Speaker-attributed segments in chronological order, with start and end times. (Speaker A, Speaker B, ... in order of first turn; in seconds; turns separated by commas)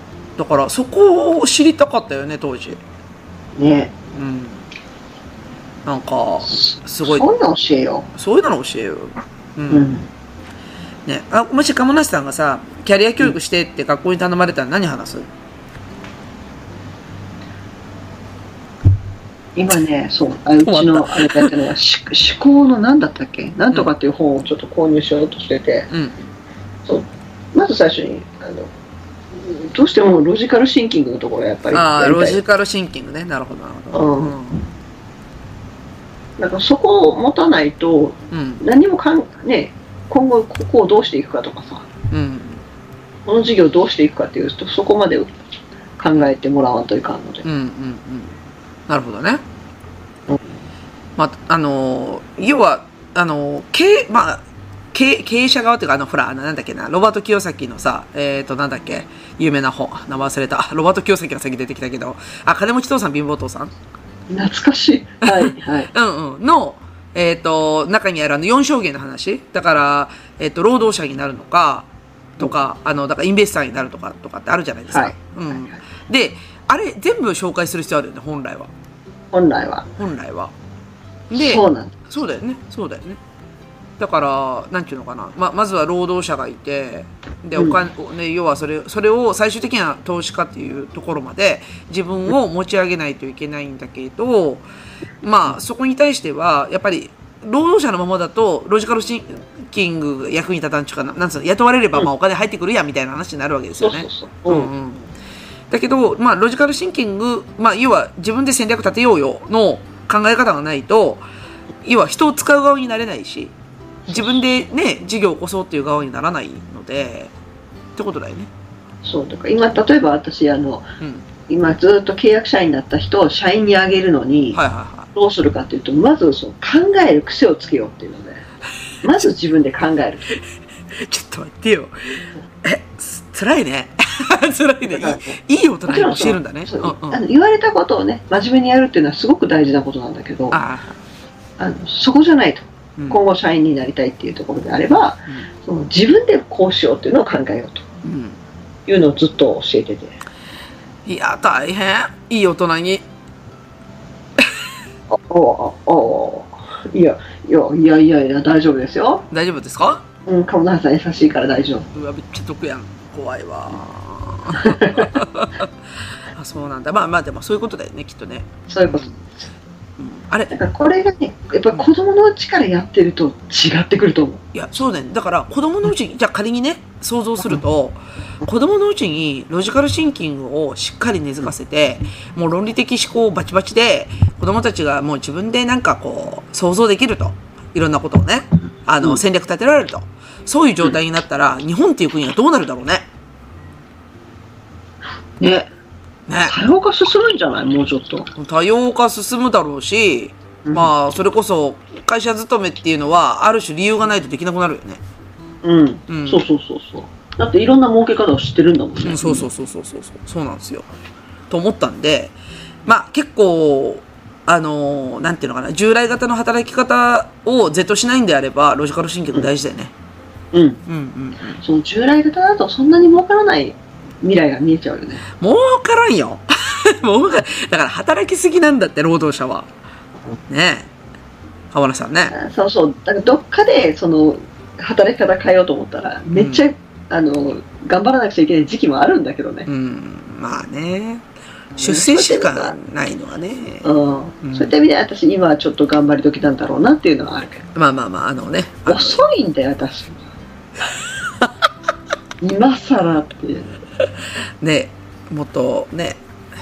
Speaker A: 0.4-2.8, Speaker B: 3.6-3.9, Speaker A: 4.1-4.7, Speaker A: 5.8-7.3, Speaker B: 6.5-8.1, Speaker A: 8.2-9.9, Speaker B: 9.7-10.1, Speaker A: 11.1-15.3, Speaker B: 19.6-25.9, Speaker A: 20.6-21.6, Speaker A: 25.9-26.2, Speaker B: 26.9-28.7, Speaker B: 29.4-32.4, Speaker A: 31.7-34.6, Speaker B: 33.9-34.4, Speaker B: 36.4-41.9, Speaker A: 38.3-38.6, Speaker A: 42.1-42.6, Speaker B: 43.3-45.3, Speaker B: 46.0-47.5, Speaker A: 47.4-48.4, Speaker A: 48.9-49.4, Speaker A: 51.2-63.7, Speaker B: 64.3-65.9, Speaker A: 65.3-78.7, Speaker B: 74.9-75.8, Speaker B: 79.3-79.9, Speaker A: 80.0-80.5, Speaker A: 81.3-83.2, Speaker B: 81.3-82.1, Speaker A: 84.0-94.7, Speaker A: 95.2-105.1, Speaker B: 103.8-104.7, Speaker A: 105.7-111.2, Speaker A: 111.8-113.5, Speaker B: 114.1-114.3, Speaker A: 114.1-117.3, Speaker A: 118.0-118.5, Speaker B: 119.0-120.9, Speaker B: 121.5-124.6, Speaker A: 124.5-125.1, Speaker B: 125.1-128.4, Speaker B: 129.0-130.3, Speaker A: 130.9-137.2, Speaker B: 134.9-140.6, Speaker A: 140.5-140.9, Speaker B: 141.6-147.9, Speaker A: 148.0-148.4, Speaker B: 148.9-150.2, Speaker A: 151.1-153.1, Speaker B: 155.1-159.3, Speaker A: 159.3-160.0, Speaker B: 160.3-161.9, Speaker A: 161.9-165.7, Speaker B: 164.6-165.1, Speaker A: 166.3-169.1, Speaker B: 168.7-169.5, Speaker A: 170.0-170.5, Speaker B: 170.5-174.4, Speaker A: 174.5-193.1, Speaker B: 195.4-195.7, Speaker A: 196.3-196.6, Speaker B: 196.5-198.3, Speaker A: 198.3-205.0, Speaker B: 200.7-200.9, Speaker B: 205.6-209.5, Speaker A: 206.1-206.4, Speaker A: 209.0-210.9, Speaker A: 211.5-219.9, Speaker B: 220.5-220.8, Speaker A: 220.9-221.6, Speaker B: 221.6-225.2, Speaker A: 225.4-229.7, Speaker A: 230.5-230.9, Speaker A: 231.7-232.3, Speaker B: 232.3-239.7, Speaker A: 236.3-236.7, Speaker A: 239.7-244.7, Speaker B: 241.8-242.8, Speaker B: 243.8-247.7, Speaker A: 247.8-249.2, Speaker B: 248.9-250.3, Speaker B: 252.4-253.8, Speaker A: 254.6-256.2